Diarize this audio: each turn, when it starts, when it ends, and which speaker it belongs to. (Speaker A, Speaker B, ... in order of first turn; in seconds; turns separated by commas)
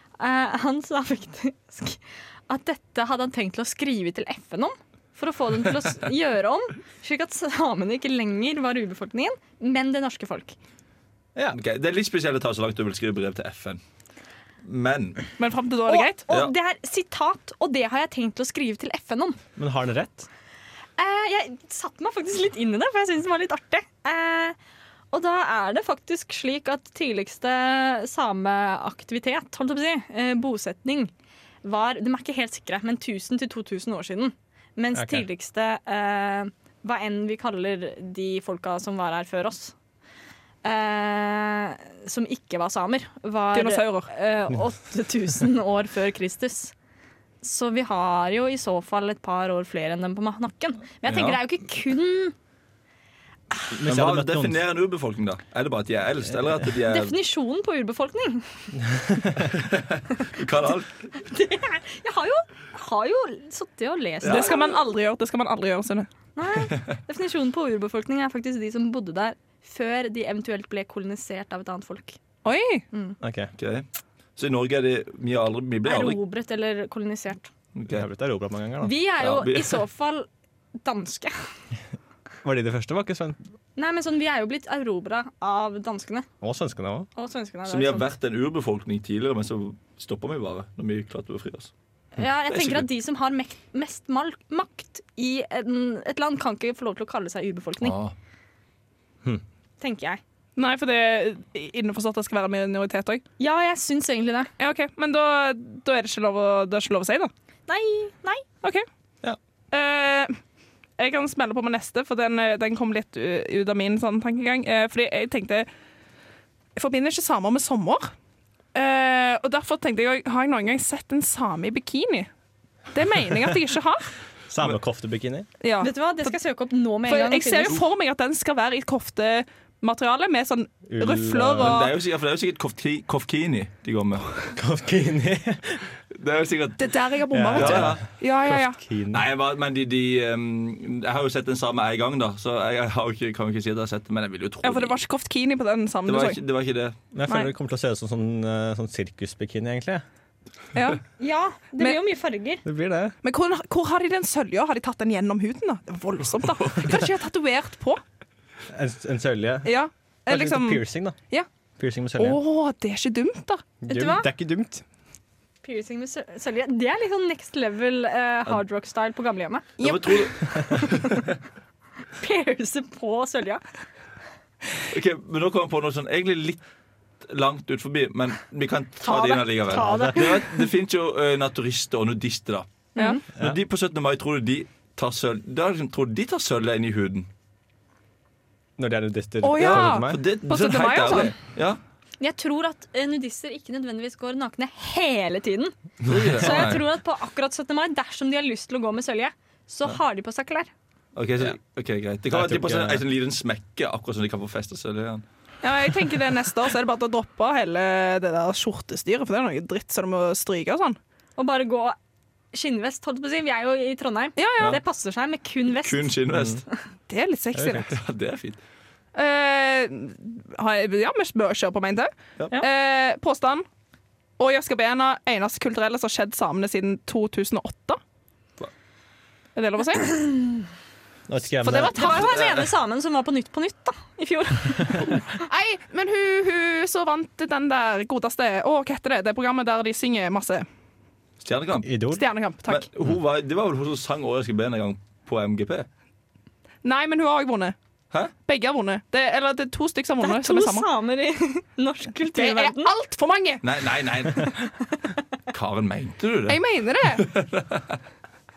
Speaker A: 0.2-10.6, Speaker B: 11.5-13.8, Speaker B: 14.6-15.2, Speaker C: 15.4-16.2, Speaker A: 15.9-19.4, Speaker D: 19.6-20.3, Speaker A: 21.0-24.6, Speaker A: 25.1-31.1, Speaker A: 31.6-39.7, Speaker D: 34.9-35.2, Speaker A: 40.6-46.7, Speaker C: 43.5-44.1, Speaker A: 47.4-52.3, Speaker B: 51.1-51.4, Speaker D: 53.7-54.6, Speaker B: 53.8-57.1, Speaker A: 56.9-58.8, Speaker D: 58.9-59.4, Speaker B: 59.5-60.9, Speaker A: 61.2-64.8, Speaker B: 64.2-64.6, Speaker C: 64.2-66.1, Speaker A: 66.3-72.2, Speaker C: 72.4-72.8, Speaker D: 73.2-73.5, Speaker B: 73.6-73.8, Speaker B: 74.3-76.2, Speaker A: 75.8-77.5, Speaker B: 77.7-78.0, Speaker D: 77.9-78.9, Speaker A: 78.8-80.3, Speaker B: 79.2-79.8, Speaker A: 80.8-81.3, Speaker D: 82.4-83.4, Speaker A: 83.8-86.3, Speaker D: 86.4-87.1, Speaker A: 87.2-88.1, Speaker B: 87.7-91.7, Speaker A: 92.2-98.0, Speaker B: 92.5-92.9, Speaker B: 97.8-98.1, Speaker A: 99.8-100.2, Speaker C: 100.5-103.2, Speaker A: 103.4-104.5, Speaker C: 104.6-107.3, Speaker A: 107.7-108.4, Speaker C: 109.7-110.4, Speaker C: 111.0-115.7, Speaker C: 116.8-118.1, Speaker C: 118.7-122.3, Speaker C: 122.9-124.1, Speaker D: 124.5-125.5, Speaker C: 125.6-126.3, Speaker A: 125.8-127.8, Speaker C: 127.0-131.9, Speaker D: 130.9-131.8, Speaker B: 131.6-134.5, Speaker D: 134.5-135.8, Speaker B: 136.1-137.0, Speaker C: 136.8-138.8, Speaker D: 137.3-139.2, Speaker B: 137.5-138.0, Speaker B: 139.1-145.0, Speaker C: 144.6-146.4, Speaker B: 146.1-146.9, Speaker D: 147.1-150.0, Speaker C: 150.7-151.0, Speaker A: 151.2-152.6, Speaker D: 152.6-153.2, Speaker C: 153.2-158.0, Speaker B: 156.4-156.9, Speaker D: 158.7-161.2, Speaker C: 159.6-161.5, Speaker D: 161.8-162.4, Speaker C: 162.2-163.7, Speaker D: 163.8-164.8, Speaker A: 163.9-164.3, Speaker A: 165.6-169.7, Speaker C: 169.8-170.3, Speaker B: 169.8-171.3, Speaker A: 172.2-173.6, Speaker B: 174.9-176.6, Speaker B: 177.2-182.7, Speaker A: 179.0-180.6, Speaker D: 179.7-180.3, Speaker A: 182.9-183.2, Speaker B: 183.3-187.3, Speaker D: 188.8-190.2, Speaker C: 189.4-191.3, Speaker B: 189.6-191.8, Speaker A: 192.2-195.8, Speaker B: 196.0-196.8, Speaker A: 196.3-200.7, Speaker B: 201.1-205.2, Speaker D: 202.3-203.0, Speaker C: 205.6-211.0, Speaker A: 211.4-211.9, Speaker A: 212.5-216.1, Speaker C: 214.4-214.8, Speaker B: 215.8-216.6, Speaker D: 216.3-216.6, Speaker C: 217.1-217.9, Speaker D: 217.5-217.9, Speaker B: 217.9-218.6, Speaker C: 219.1-223.7, Speaker C: 224.4-228.0, Speaker C: 229.5-230.3, Speaker D: 231.3-232.2, Speaker C: 231.6-232.4, Speaker A: 231.9-235.2, Speaker C: 235.3-240.7, Speaker B: 241.4-241.9, Speaker D: 241.8-242.2, Speaker C: 242.1-242.9, Speaker B: 242.7-245.9, Speaker C: 246.8-247.8, Speaker C: 248.4-250.9, Speaker A: 250.2-252.9, Speaker C: 252.3-253.6, Speaker B: 253.6-254.6, Speaker B: 255.5-258.0, Speaker C: 256.5-257.2